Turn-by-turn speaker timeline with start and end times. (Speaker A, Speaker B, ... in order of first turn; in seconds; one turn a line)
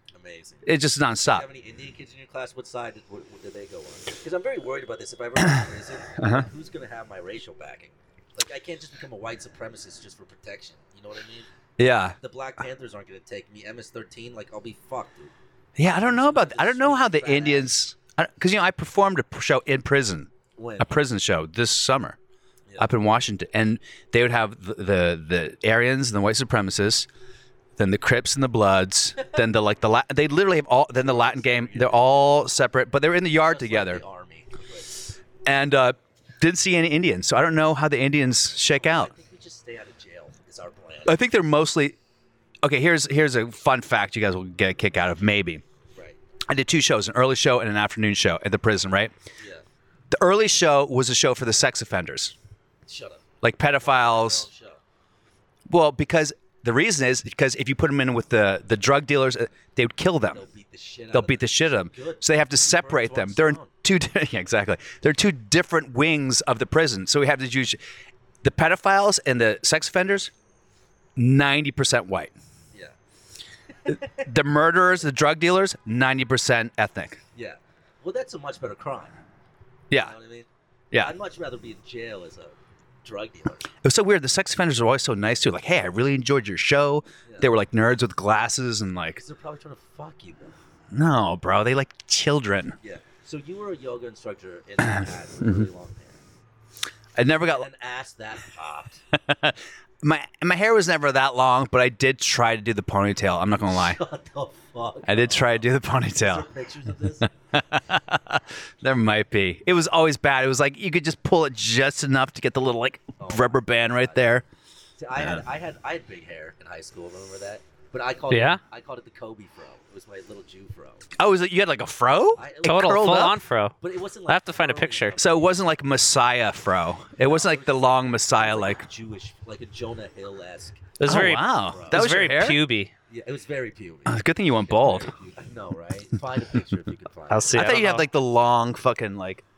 Speaker A: 0.1-0.7
Speaker B: 0.6-1.5
Speaker A: 1.2-11.5
Speaker B: 6.2-6.5
Speaker B: 11.8-12.2
Speaker A: 12.2-15.3
Speaker B: 15.8-22.2
Speaker A: 15.9-17.7
Speaker A: 20.6-21.0
Speaker B: 22.8-27.1
Speaker B: 27.8-34.0
Speaker A: 30.9-32.4
Speaker A: 33.4-35.1
Speaker B: 35.4-39.1
Speaker A: 38.7-41.2
Speaker B: 41.0-42.0
Speaker B: 42.6-45.6
Speaker B: 46.5-49.1
Speaker A: 49.4-49.6
Speaker B: 50.1-52.3
Speaker A: 52.9-53.2
Speaker B: 53.4-54.5
Speaker A: 53.8-54.8
Speaker B: 55.7-60.4
Speaker A: 60.3-63.7
Speaker B: 61.1-67.8
Speaker B: 68.4-70.3
Speaker B: 71.2-72.3
Speaker A: 73.8-74.3
Speaker B: 73.9-77.2
Speaker A: 77.3-79.1
Speaker A: 79.9-83.7
Speaker B: 83.8-89.2
Speaker A: 89.1-90.5
Speaker B: 90.9-92.8
Speaker A: 92.8-96.2
Speaker B: 95.4-95.7
Speaker B: 97.2-97.7
Speaker A: 97.5-99.0
Speaker B: 99.1-104.0
Speaker A: 103.7-107.3
Speaker B: 105.1-106.5
Speaker B: 107.5-114.4
Speaker A: 113.2-114.2
Speaker A: 115.0-121.0
Speaker B: 115.2-115.4
Speaker C: 118.3-118.6
Speaker B: 121.2-123.3
Speaker A: 122.4-123.1
Speaker C: 122.6-123.7
Speaker A: 123.8-125.5
Speaker C: 124.3-125.2
Speaker B: 125.2-128.8
Speaker A: 127.2-132.0
Speaker C: 131.0-132.9
Speaker B: 131.0-132.6
Speaker A: 133.1-137.7
Speaker B: 134.1-135.1
Speaker C: 137.3-138.1
Speaker B: 137.5-139.4